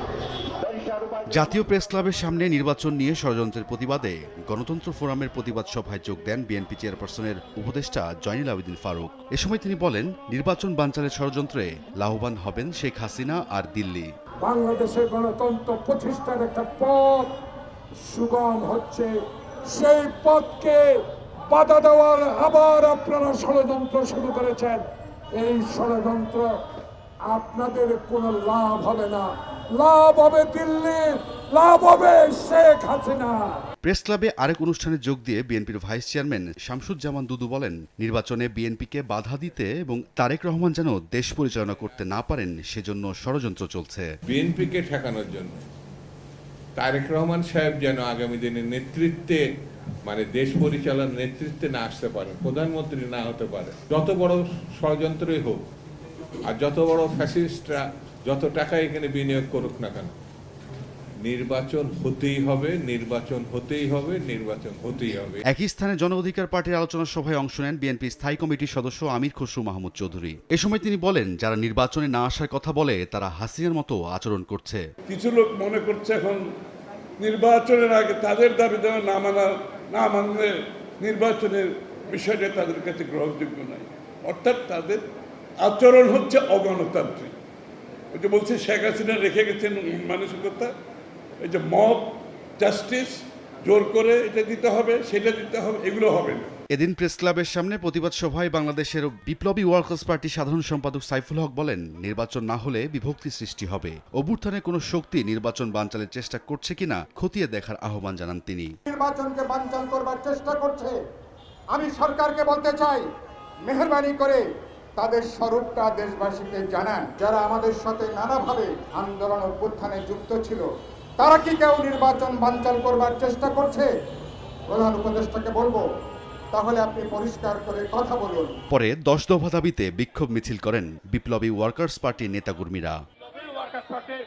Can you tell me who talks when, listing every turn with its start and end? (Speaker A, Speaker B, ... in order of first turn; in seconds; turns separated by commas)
Speaker A: 1.3-14.1, Speaker B: 14.4-17.3, Speaker B: 18.0-19.1, Speaker B: 19.7-24.8, Speaker B: 25.4-26.5, Speaker B: 27.3-33.5, Speaker A: 33.8-44.1, Speaker C: 44.3-45.6, Speaker C: 46.8-49.4, Speaker C: 50.0-55.6, Speaker C: 56.5-60.1, Speaker C: 61.2-65.4, Speaker A: 65.5-74.8, Speaker D: 75.1-76.4, Speaker D: 77.2-85.0, Speaker D: 85.6-87.3, Speaker D: 88.1-90.7, Speaker D: 91.4-96.5, Speaker A: 96.7-108.7, Speaker E: 108.9-111.0, Speaker E: 111.7-113.0, Speaker E: 113.7-114.4, Speaker E: 115.0-120.6, Speaker E: 121.2-123.9, Speaker E: 124.7-125.8, Speaker E: 126.5-128.6, Speaker A: 128.7-132.9